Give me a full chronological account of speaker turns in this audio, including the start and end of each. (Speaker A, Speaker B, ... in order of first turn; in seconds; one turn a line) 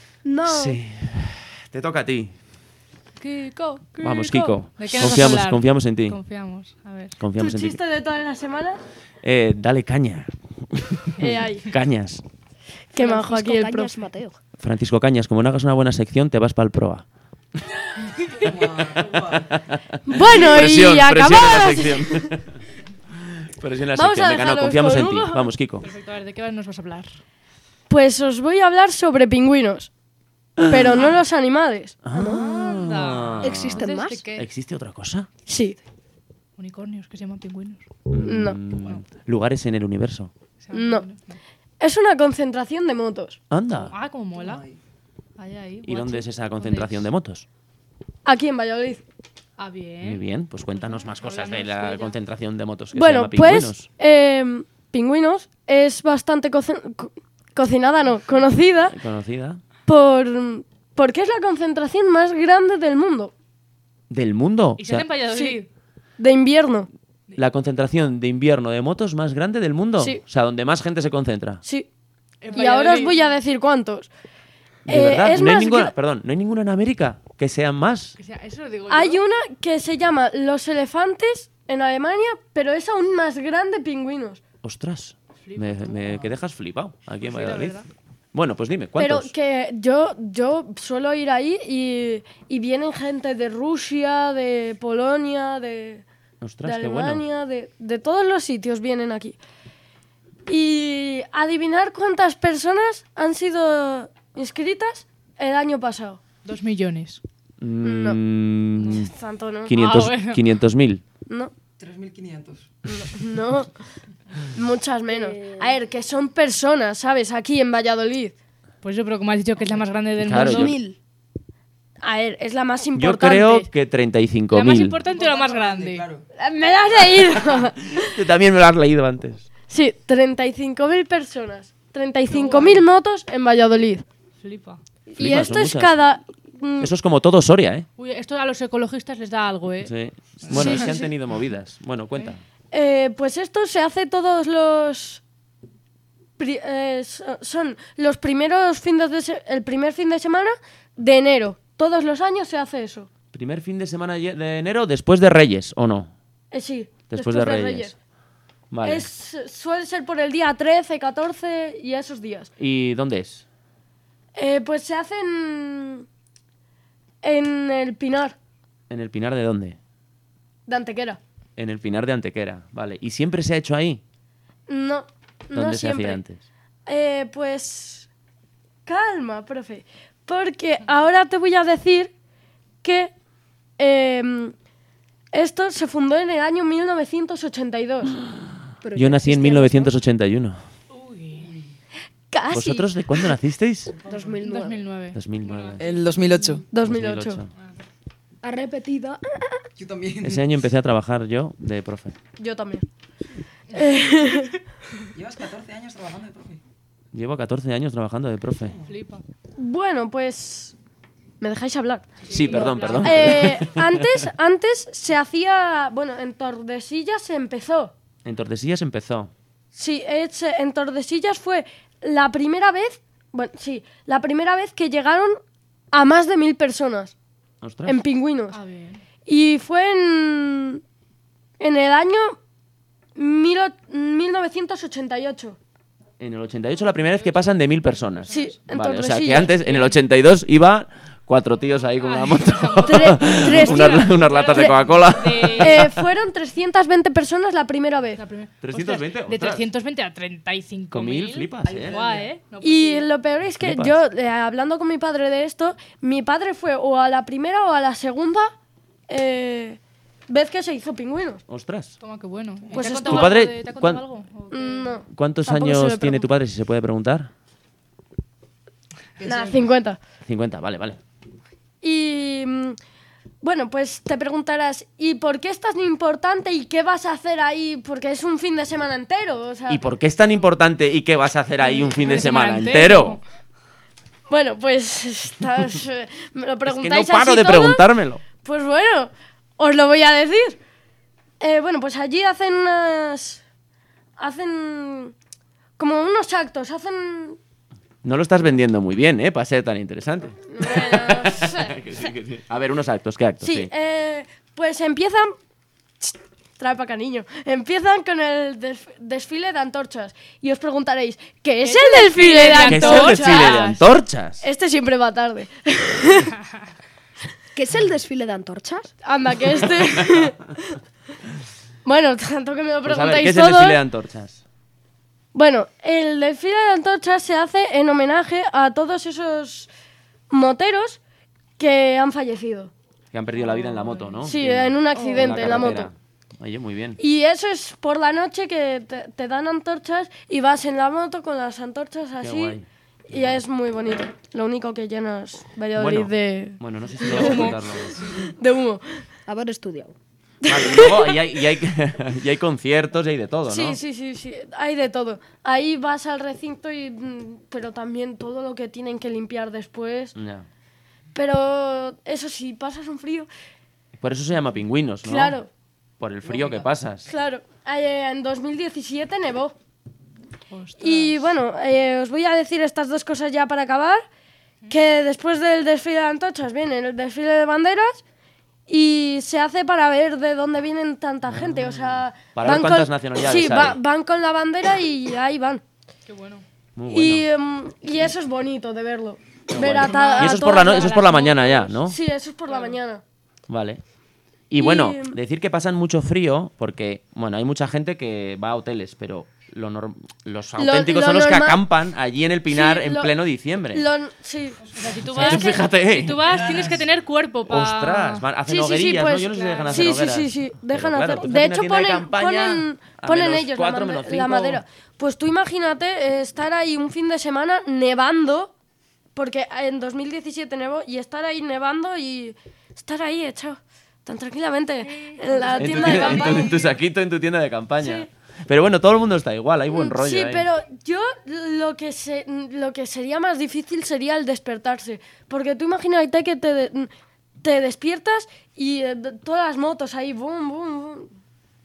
Speaker A: 0.2-0.8
Speaker B: 0.5-2.3
Speaker C: 3.2-7.2
Speaker B: 4.0-6.2
Speaker B: 7.2-7.8
Speaker D: 7.4-8.8
Speaker B: 9.2-12.2
Speaker D: 11.2-11.7
Speaker D: 12.9-13.9
Speaker A: 12.9-14.4
Speaker B: 14.6-17.0
Speaker E: 18.3-19.6
Speaker B: 19.0-22.6
Speaker D: 20.1-22.3
Speaker B: 23.2-25.9
Speaker D: 23.9-25.5
Speaker C: 25.8-27.2
Speaker D: 27.9-29.9
Speaker B: 30.6-31.1
Speaker D: 30.6-31.9
Speaker B: 32.0-33.8
Speaker A: 32.1-32.8
Speaker C: 32.2-34.5
Speaker A: 33.4-34.2
Speaker B: 34.4-35.3
Speaker D: 35.5-35.8
Speaker C: 36.6-37.9
Speaker B: 38.1-40.3
Speaker D: 38.2-38.6
Speaker C: 38.8-39.0
Speaker C: 40.6-41.4
Speaker D: 40.7-41.0
Speaker D: 41.8-43.4
Speaker B: 43.5-43.9
Speaker C: 43.7-44.6
Speaker E: 44.4-44.8
Speaker C: 45.4-47.1
Speaker B: 45.9-47.4
Speaker D: 48.2-49.0
Speaker C: 49.6-50.2
Speaker B: 50.0-53.9
Speaker C: 50.7-52.2
Speaker D: 52.9-59.0
Speaker B: 58.9-59.6
Speaker D: 59.9-63.3
Speaker B: 64.1-65.1
Speaker C: 64.8-65.7
Speaker D: 66.2-66.9
Speaker B: 67.3-71.6
Speaker C: 72.4-73.4
Speaker D: 72.5-74.1
Speaker D: 74.8-75.9
Speaker B: 74.9-78.2
Speaker C: 78.2-79.2
Speaker D: 78.9-84.4
Speaker B: 84.6-87.8
Speaker C: 85.4-86.0
Speaker C: 87.2-87.9
Speaker B: 88.3-89.3
Speaker D: 89.0-96.0
Speaker B: 96.4-97.2
Speaker D: 96.6-99.4
Speaker D: 100.5-106.2
Speaker C: 106.4-107.2
Speaker B: 107.6-109.1
Speaker D: 107.8-108.2
Speaker C: 108.8-109.1
Speaker D: 109.0-109.7
Speaker B: 109.7-111.0
Speaker C: 109.7-110.4
Speaker E: 111.8-112.7
Speaker D: 112.9-113.7
Speaker D: 114.5-118.3
Speaker A: 115.1-115.8
Speaker C: 118.8-120.7
Speaker B: 120.2-120.8
Speaker A: 120.3-121.0
Speaker D: 122.0-123.7
Speaker B: 122.9-125.0
Speaker C: 124.5-126.0
Speaker E: 125.0-126.2
Speaker D: 126.3-128.2
Speaker B: 127.9-129.4
Speaker D: 129.7-134.0
Speaker C: 132.3-132.8
Speaker C: 134.4-134.8
Speaker D: 135.2-136.9
Speaker B: 135.2-136.0
Speaker B: 136.8-137.8
Speaker C: 138.0-140.9
Speaker B: 139.8-142.4
Speaker D: 140.5-141.1
Speaker D: 142.7-145.2
Speaker D: 146.4-153.1
Speaker B: 153.3-156.1
Speaker D: 156.5-157.9
Speaker B: 157.1-157.9
Speaker B: 158.7-159.1
Speaker D: 158.8-162.5
Speaker B: 162.6-163.4
Speaker D: 164.3-166.1
Speaker D: 167.2-168.3
Speaker B: 168.9-169.8
Speaker D: 170.7-171.2
Speaker B: 171.6-174.0
Speaker D: 174.7-176.2
Speaker B: 175.5-176.4
Speaker D: 176.8-178.1
Speaker D: 178.8-182.1
Speaker D: 182.8-183.1
Speaker D: 183.8-184.5
Speaker D: 185.3-188.1
Speaker A: 188.8-189.9
Speaker B: 188.9-190.6
Speaker C: 190.9-191.5
Speaker D: 192.3-193.3
Speaker B: 192.5-193.9
Speaker E: 194.1-194.3
Speaker A: 194.1-194.8
Speaker C: 194.4-196.6
Speaker B: 195.1-195.8
Speaker E: 195.8-196.7
Speaker D: 196.7-197.4
Speaker B: 196.8-197.5
Speaker C: 197.5-197.8
Speaker A: 198.4-199.6
Speaker E: 199.8-200.4
Speaker B: 200.2-202.2
Speaker D: 202.4-202.8
Speaker D: 203.7-204.5
Speaker E: 205.1-206.6
Speaker B: 207.1-208.8
Speaker C: 208.8-209.2
Speaker D: 209.6-210.7
Speaker D: 211.4-212.2
Speaker C: 212.2-213.5
Speaker B: 212.3-214.3
Speaker E: 212.5-213.2
Speaker D: 212.9-217.9
Speaker B: 218.2-219.3
Speaker D: 219.7-225.4
Speaker D: 225.9-227.1
Speaker B: 227.6-228.0
Speaker D: 227.8-228.6
Speaker C: 228.5-229.0
Speaker D: 229.2-230.8
Speaker D: 231.6-232.4
Speaker D: 233.2-235.6
Speaker B: 236.2-246.1
Speaker C: 237.0-238.6
Speaker D: 238.3-239.9
Speaker C: 242.0-245.9
Speaker D: 242.9-244.7
Speaker D: 245.6-248.2
Speaker C: 248.2-253.1
Speaker B: 248.6-249.7
Speaker B: 250.9-252.0
Speaker E: 251.6-252.3
Speaker D: 252.6-258.5
Speaker B: 253.5-254.0
Speaker D: 259.1-261.4
Speaker B: 261.5-261.9
Speaker C: 262.0-265.0
Speaker E: 262.7-262.9
Speaker D: 262.7-263.3
Speaker B: 263.0-264.0
Speaker D: 264.5-266.3
Speaker B: 265.1-267.3
Speaker E: 269.2-269.6
Speaker D: 269.2-270.0
Speaker B: 270.3-271.0
Speaker D: 271.8-272.8
Speaker D: 273.4-279.8
Speaker B: 279.7-283.2
Speaker C: 281.6-283.2
Speaker D: 284.3-287.9
Speaker B: 286.6-288.2
Speaker D: 288.4-290.6
Speaker D: 291.4-293.4
Speaker D: 294.2-295.1
Speaker D: 295.8-297.4
Speaker B: 298.0-303.7
Speaker D: 300.5-301.8
Speaker D: 303.4-305.3
Speaker D: 306.0-313.6
Speaker C: 311.6-313.8
Speaker B: 312.5-314.4
Speaker D: 314.4-316.4
Speaker A: 317.5-318.9
Speaker D: 319.0-320.8
Speaker D: 321.8-323.8
Speaker B: 322.8-324.4
Speaker D: 325.3-329.7
Speaker D: 330.3-331.0
Speaker D: 331.6-332.7
Speaker B: 333.1-337.0
Speaker C: 333.3-334.3
Speaker D: 334.2-335.9
Speaker A: 334.9-335.6
Speaker D: 337.0-342.6
Speaker B: 342.2-343.4
Speaker D: 343.1-349.0
Speaker B: 345.7-348.2
Speaker C: 347.0-347.8
Speaker A: 349.3-349.9
Speaker D: 350.4-351.1
Speaker B: 350.4-353.8
Speaker D: 353.5-360.1
Speaker B: 360.1-360.4
Speaker D: 361.1-363.3
Speaker B: 364.0-365.4
Speaker D: 365.0-365.5
Speaker B: 366.0-367.1
Speaker E: 366.2-366.6
Speaker D: 367.1-369.5
Speaker C: 370.5-371.3
Speaker D: 370.8-374.0
Speaker D: 374.7-378.0
Speaker D: 378.7-385.6
Speaker B: 381.3-383.8
Speaker C: 386.1-386.4
Speaker B: 386.8-387.3
Speaker D: 386.9-393.0
Speaker B: 389.5-392.0
Speaker C: 389.8-390.5
Speaker C: 392.5-392.8
Speaker B: 393.5-393.8
Speaker B: 394.5-403.9
Speaker D: 394.6-395.2
Speaker D: 400.6-401.6
Speaker D: 402.5-403.1
Speaker D: 403.7-404.6
Speaker C: 404.7-408.2
Speaker B: 405.1-406.6
Speaker B: 407.5-414.6
Speaker D: 408.5-418.5
Speaker C: 409.3-409.9
Speaker D: 419.1-426.6
Speaker C: 424.8-426.4
Speaker E: 425.5-426.7
Speaker B: 425.6-430.5
Speaker D: 427.8-428.1
Speaker D: 429.7-441.1